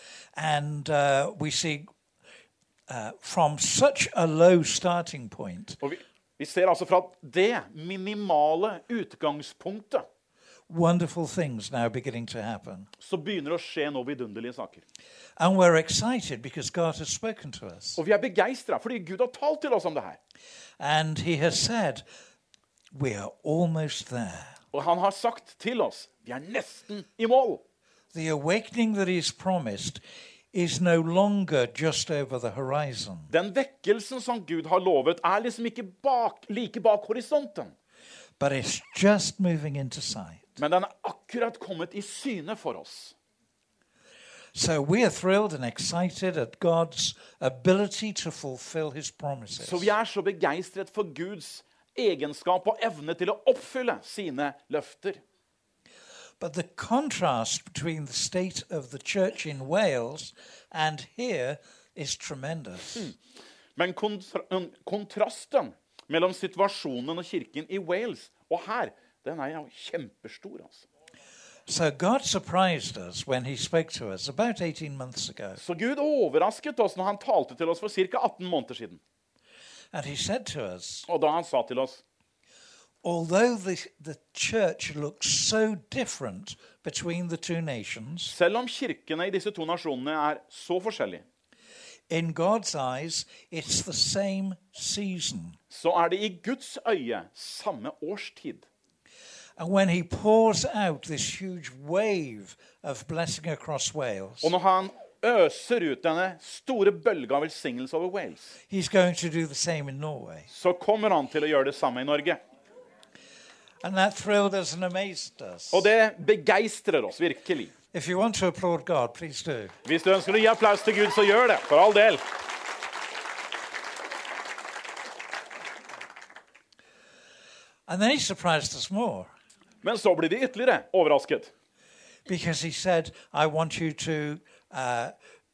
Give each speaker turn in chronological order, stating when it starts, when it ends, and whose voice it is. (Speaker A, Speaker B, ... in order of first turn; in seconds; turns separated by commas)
Speaker A: 0.3-1.9, Speaker A: 2.9-5.8, Speaker B: 5.8-10.1, Speaker A: 10.7-12.9, Speaker B: 13.0-14.8, Speaker A: 15.4-18.0, Speaker B: 18.0-20.2, Speaker A: 20.8-22.0, Speaker A: 22.9-24.6, Speaker B: 24.7-27.6, Speaker A: 28.1-33.3, Speaker B: 33.3-37.7, Speaker A: 38.4-40.6, Speaker B: 40.6-43.2, Speaker A: 44.5-49.9, Speaker B: 49.6-55.2, Speaker A: 56.4-63.1, Speaker B: 63.8-70.9, Speaker A: 71.7-75.6, Speaker B: 75.6-79.0, Speaker A: 79.9-81.1, Speaker B: 81.1-82.0, Speaker A: 83.0-88.4, Speaker B: 88.3-91.2, Speaker A: 92.1-95.6, Speaker B: 95.7-98.7, Speaker A: 99.6-104.5, Speaker B: 104.4-108.5, Speaker A: 108.7-110.5, Speaker B: 110.5-112.4, Speaker A: 113.8-115.9, Speaker B: 115.7-117.7, Speaker A: 117.9-119.8, Speaker B: 119.8-122.2, Speaker A: 127.9-129.3, Speaker B: 129.8-131.5, Speaker A: 132.3-135.1